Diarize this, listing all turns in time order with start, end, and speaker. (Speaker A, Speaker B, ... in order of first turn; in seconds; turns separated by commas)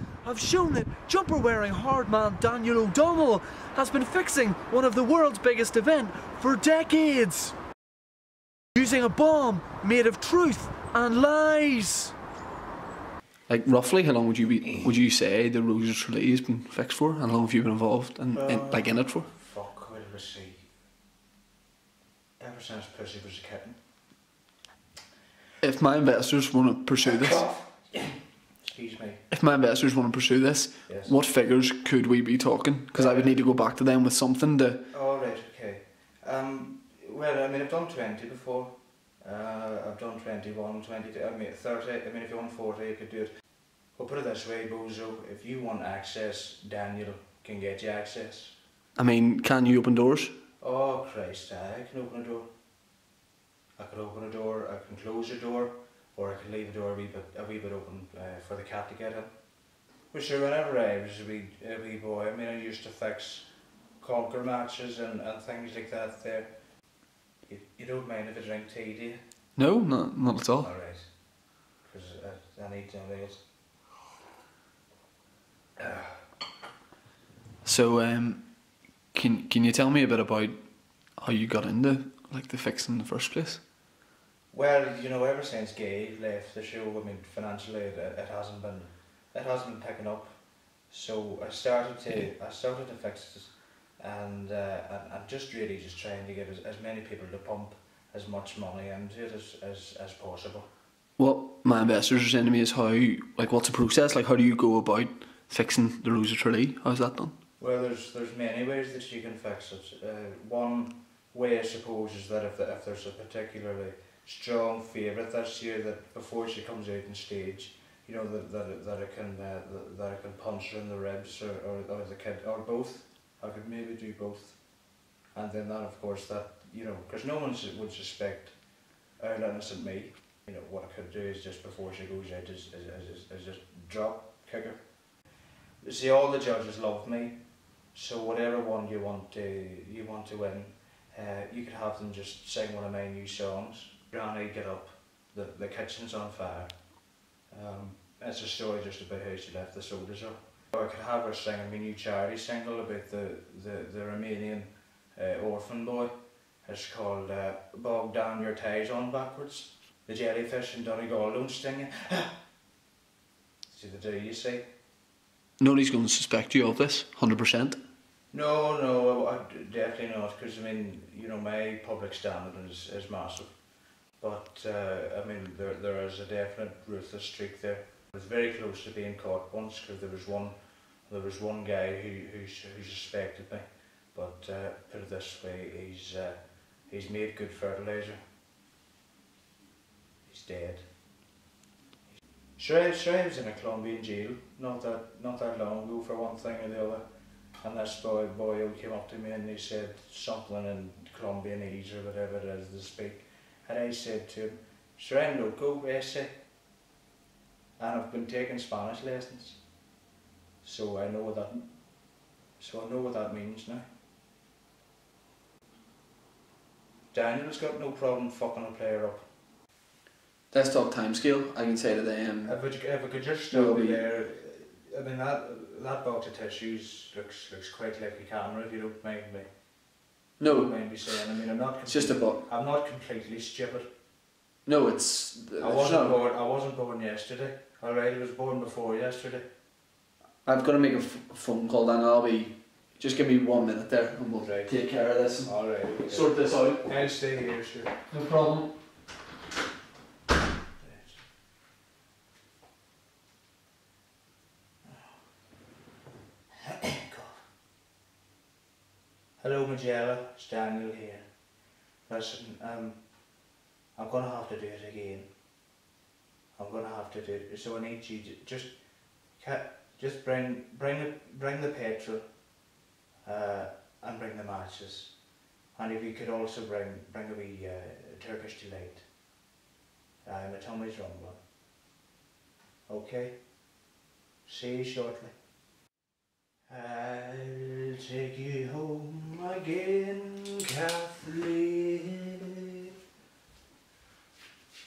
Speaker A: 0.2-2.6, Speaker B: 0.4-3.3, Speaker A: 3.3-7.4, Speaker A: 8.8-12.1, Speaker B: 13.5-19.3, Speaker C: 18.3-20.7, Speaker C: 22.4-23.8, Speaker B: 25.6-27.4, Speaker C: 27.0-29.2, Speaker B: 29.3-34.8, Speaker C: 30.9-31.1, Speaker C: 32.9-33.4, Speaker C: 34.9-43.3, Speaker C: 44.0-48.5, Speaker B: 49.0-50.3, Speaker C: 50.6-52.5, Speaker C: 53.8-59.3, Speaker C: 60.1-63.5, Speaker C: 64.0-66.5, Speaker C: 67.5-69.2, Speaker B: 69.5-70.7, Speaker C: 70.6-71.2, Speaker C: 71.8-73.4, Speaker C: 75.8-76.2, Speaker B: 77.6-78.5, Speaker B: 79.1-80.6, Speaker B: 81.2-83.6, Speaker C: 84.5-90.3, Speaker C: 90.9-100.7, Speaker B: 101.2-107.3, Speaker C: 107.6-124.6, Speaker C: 125.3-128.5, Speaker C: 129.2-134.8, Speaker C: 135.8-137.4, Speaker C: 137.9-146.7, Speaker C: 147.5-162.3, Speaker C: 163.7-164.7, Speaker B: 165.6-167.8, Speaker C: 168.3-173.5, Speaker C: 174.2-180.6, Speaker C: 181.1-188.2, Speaker C: 190.2-190.8, Speaker C: 192.6-197.0, Speaker C: 197.6-206.3, Speaker C: 207.8-209.6, Speaker C: 210.6-211.7, Speaker C: 212.6-213.8, Speaker C: 217.1-219.2, Speaker B: 220.5-222.6, Speaker C: 222.4-229.5, Speaker B: 223.5-224.0, Speaker B: 230.4-230.7, Speaker C: 230.4-233.8, Speaker B: 231.8-232.4, Speaker B: 234.7-236.2, Speaker C: 235.6-239.5, Speaker B: 240.4-246.9, Speaker C: 244.4-244.8, Speaker C: 245.4-248.0, Speaker B: 248.1-248.7, Speaker C: 250.8-251.2, Speaker C: 256.6-257.4, Speaker C: 259.4-261.2, Speaker C: 262.1-263.0, Speaker C: 263.9-265.3, Speaker C: 266.6-268.8, Speaker C: 269.3-272.2, Speaker C: 273.2-275.1, Speaker C: 275.7-279.1, Speaker C: 280.2-281.4, Speaker C: 282.9-283.4, Speaker C: 284.4-285.3, Speaker C: 286.7-292.9